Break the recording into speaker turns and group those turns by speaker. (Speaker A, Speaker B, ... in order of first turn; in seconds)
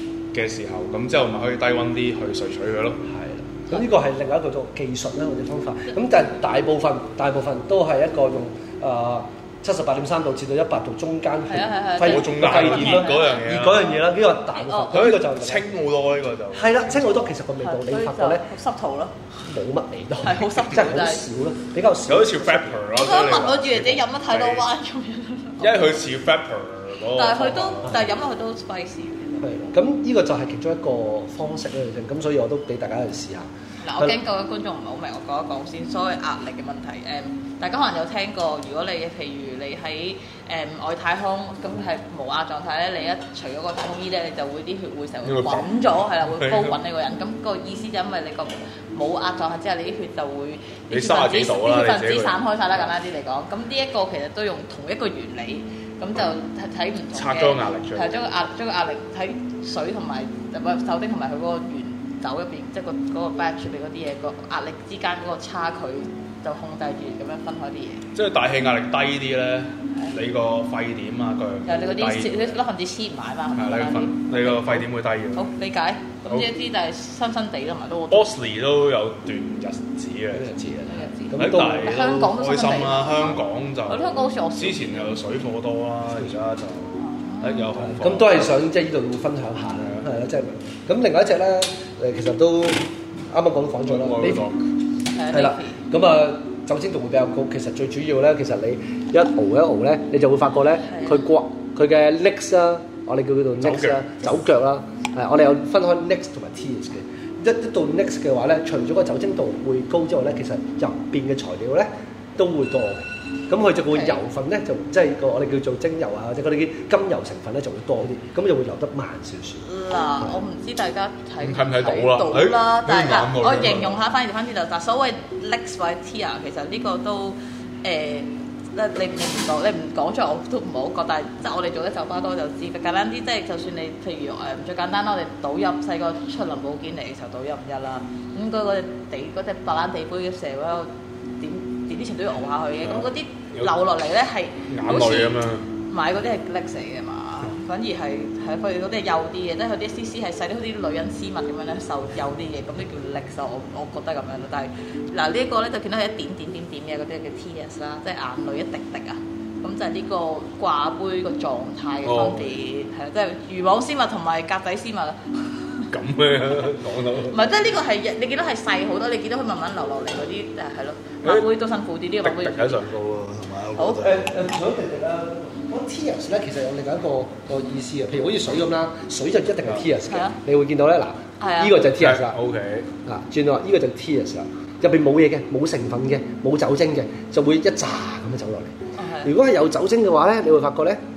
Speaker A: 0.3-3.0, 12.0-14.0, 14.9-17.3, 22.1-24.6, 25.6-28.1, 45.2-45.7, 46.2-46.8, 50.9-52.4, 57.1-58.1, 68.1-72.6, 73.5-75.5, 78.1-80.6, 81.3-88.5, 89.8-90.0, 93.8-94.7, 103.6-104.0, 121.4-124.0, 142.8-143.7, 144.7-145.7, 162.0-162.6, 165.9-167.4, 172.2-174.4, 182.0-182.9
Speaker B: 3.0-15.7, 16.5-18.4, 19.4-22.9, 29.4-34.1, 80.3-81.9, 87.8-94.5, 95.3-119.6, 174.0-182.4, 183.0-191.0
Speaker C: 11.5-13.4, 14.5-15.1, 17.6-19.3, 20.2-21.2, 22.9-26.0, 27.1-29.7, 33.8-68.0, 71.7-78.3, 80.8-85.2, 87.0-87.7, 95.1-95.8, 100.8-101.2, 113.9-114.2, 119.6-165.9, 167.3-172.9, 173.8-174.1, 180.1-180.4, 181.4-181.8, 189.0-189.3